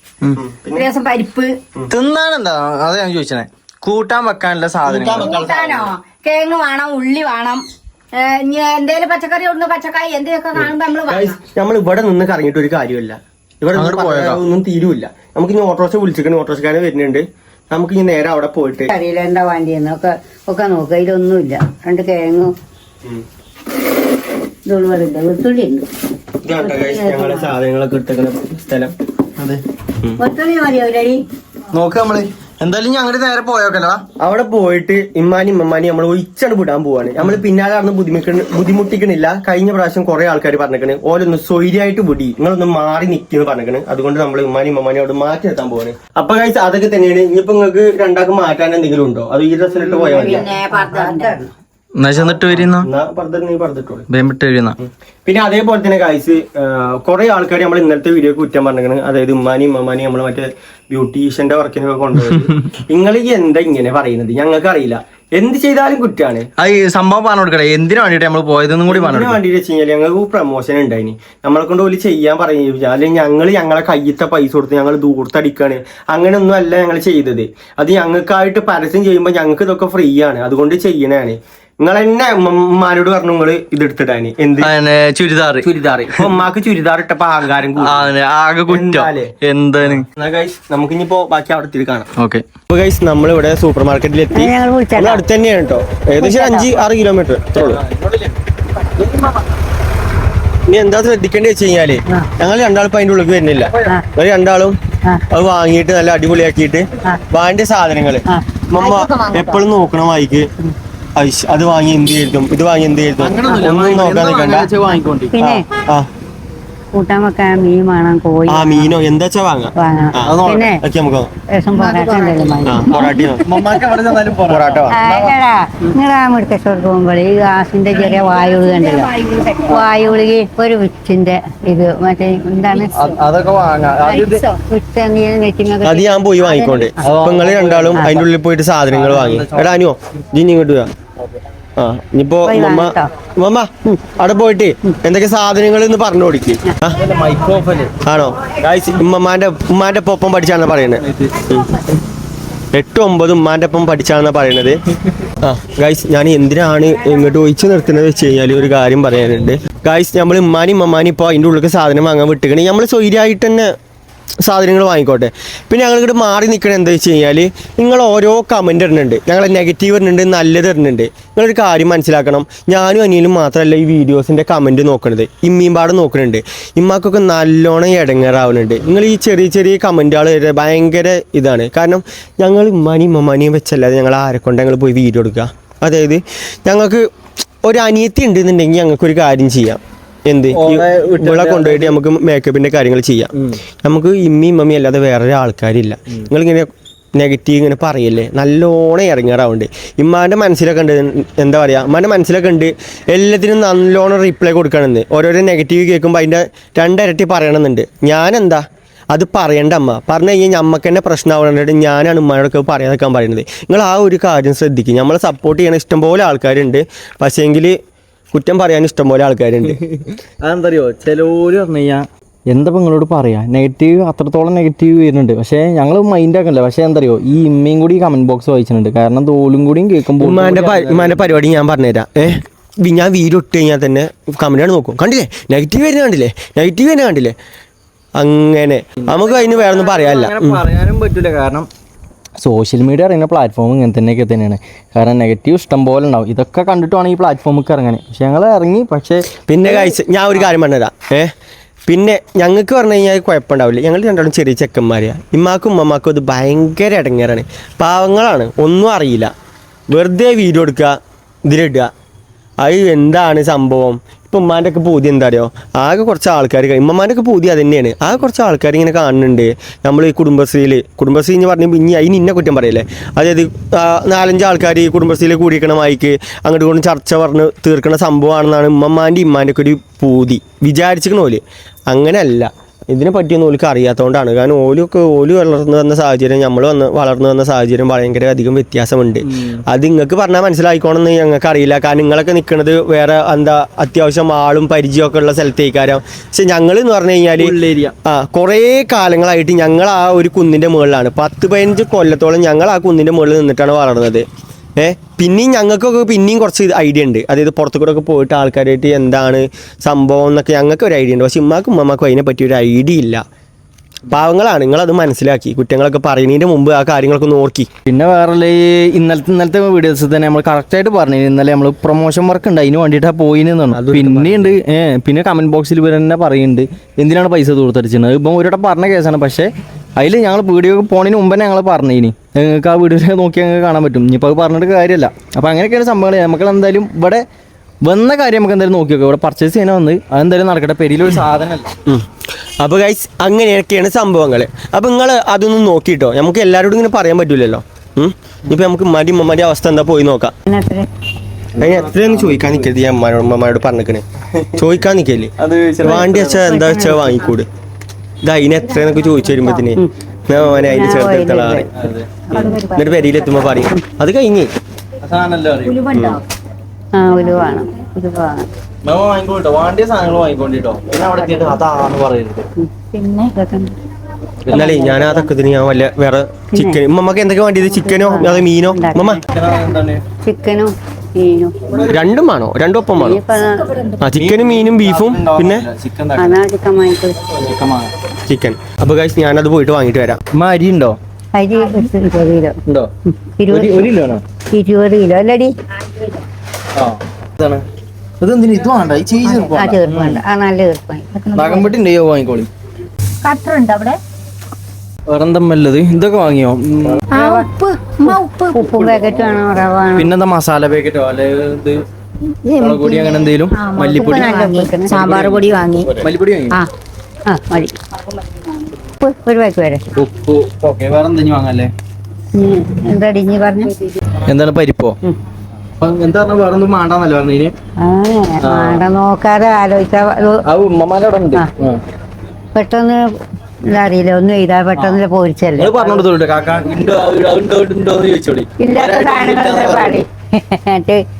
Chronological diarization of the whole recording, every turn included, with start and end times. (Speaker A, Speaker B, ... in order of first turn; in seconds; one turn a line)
Speaker A: 0.3-0.9
Speaker B: 0.7-1.5
Speaker C: 1.9-5.3
Speaker A: 4.8-5.9
Speaker B: 5.2-11.4
Speaker A: 10.6-18.9
Speaker C: 13.7-14.4
Speaker D: 18.9-22.5
Speaker D: 24.6-25.9
Speaker A: 26.4-28.9
Speaker D: 26.6-27.6
Speaker D: 30.2-31.2
Speaker C: 31.7-34.0
Speaker A: 34.2-50.5
Speaker D: 49.8-51.5
Speaker B: 49.9-51.5
Speaker C: 52.0-52.9
Speaker A: 52.1-54.1
Speaker C: 54.1-54.8
Speaker A: 54.8-66.5
Speaker C: 66.6-69.4
Speaker A: 68.9-84.7
Speaker C: 84.6-86.3
Speaker A: 85.6-88.1
Speaker C: 87.8-90.1
Speaker A: 88.7-92.1
Speaker C: 92.2-92.4
Speaker A: 92.7-97.8
Speaker D: 94.3-95.2
Speaker D: 96.2-96.7
Speaker C: 97.5-98.4
Speaker C: 99.0-99.4
Speaker A: 100.7-104.8
Speaker A: 105.3-110.5
Speaker B: 108.8-109.6
Speaker A: 111.2-114.7
Speaker C: 113.2-115.3
Speaker D: 115.3-115.6
Speaker A: 115.4-116.1
Speaker D: 116.9-119.0
Speaker A: 118.5-121.3
Speaker D: 119.8-120.8
Speaker C: 120.2-120.7
Speaker D: 121.5-123.2
Speaker B: 121.8-123.0
Speaker A: 122.6-123.6
Speaker C: 123.4-125.3
Speaker A: 124.5-125.0
Speaker D: 124.9-129.1
Speaker B: 127.9-130.2
Speaker D: 129.7-132.9
Speaker B: 132.7-133.2
Speaker C: 132.9-134.4
Speaker B: 134.1-134.6
Speaker D: 134.7-136.1
Speaker A: 135.8-140.9
Speaker B: 136.4-136.9
Speaker C: 137.0-138.2
Speaker D: 137.9-138.2
Speaker C: 138.9-139.8
Speaker A: 141.8-147.0
Speaker D: 142.4-143.1
Speaker C: 146.9-148.0
Speaker A: 148.0-151.7
Speaker C: 151.0-151.4
Speaker A: 152.7-154.8
Speaker A: 155.4-163.7
Speaker A: 164.4-187.1
Speaker A: 187.6-193.3
Speaker C: 190.5-192.0
Speaker A: 193.8-217.8
Speaker A: 218.3-219.8
Speaker C: 219.7-231.4
Speaker A: 230.2-232.3
Speaker A: 232.8-237.3
Speaker A: 238.2-240.6
Speaker C: 239.0-241.7
Speaker C: 242.4-250.5
Speaker A: 249.4-251.3
Speaker A: 251.9-259.3
Speaker A: 259.9-260.9
Speaker A: 261.5-261.9
Speaker A: 262.6-297.5
Speaker C: 289.2-289.6
Speaker C: 297.4-297.9
Speaker A: 298.1-304.2
Speaker A: 304.8-313.2
Speaker A: 314.1-317.7
Speaker C: 317.9-337.2
Speaker A: 323.7-324.5
Speaker C: 337.8-341.7
Speaker A: 342.6-350.3
Speaker D: 350.5-350.9
Speaker C: 351.6-352.7
Speaker A: 351.6-354.0
Speaker A: 354.6-357.5
Speaker C: 355.4-356.4
Speaker D: 355.9-357.4
Speaker A: 358.2-361.7
Speaker D: 360.6-361.7
Speaker C: 361.8-362.2
Speaker D: 362.3-362.7
Speaker B: 362.3-363.6
Speaker A: 362.4-364.5
Speaker C: 365.0-365.8
Speaker B: 365.6-366.2
Speaker A: 365.9-366.2
Speaker D: 366.9-368.5
Speaker C: 368.9-372.5
Speaker D: 371.2-371.5
Speaker B: 372.9-373.7
Speaker C: 374.4-374.8
Speaker A: 374.5-379.2
Speaker B: 374.6-375.3
Speaker D: 376.5-376.8
Speaker D: 377.6-379.2
Speaker C: 379.3-380.0
Speaker D: 380.2-381.5
Speaker C: 381.7-382.0
Speaker A: 381.9-383.2
Speaker D: 382.9-383.7
Speaker B: 383.4-383.9
Speaker A: 384.0-385.6
Speaker C: 384.1-386.4
Speaker D: 386.2-387.2
Speaker C: 387.3-387.9
Speaker A: 388.3-390.2
Speaker C: 390.3-391.0
Speaker D: 391.3-392.6
Speaker D: 393.1-393.9
Speaker C: 393.5-394.2
Speaker D: 394.5-395.5
Speaker B: 395.9-396.2
Speaker C: 396.8-397.6
Speaker C: 398.2-400.2
Speaker D: 399.2-401.1
Speaker B: 401.1-401.8
Speaker C: 401.4-402.5
Speaker B: 403.2-404.0
Speaker C: 405.1-407.0
Speaker D: 407.1-407.5
Speaker B: 407.1-408.9
Speaker D: 408.1-410.1
Speaker C: 408.8-411.8
Speaker B: 412.4-416.7
Speaker C: 412.6-414.3
Speaker D: 414.0-415.0
Speaker C: 414.9-416.6
Speaker D: 417.3-417.8
Speaker D: 419.0-419.8
Speaker C: 419.9-421.7
Speaker D: 422.4-423.7
Speaker C: 424.2-425.0
Speaker C: 425.8-427.5
Speaker D: 427.8-430.4
Speaker C: 428.4-428.8
Speaker C: 430.5-431.8
Speaker D: 432.5-433.0
Speaker D: 433.6-436.0
Speaker C: 434.8-435.0
Speaker C: 435.6-440.0
Speaker D: 438.6-441.0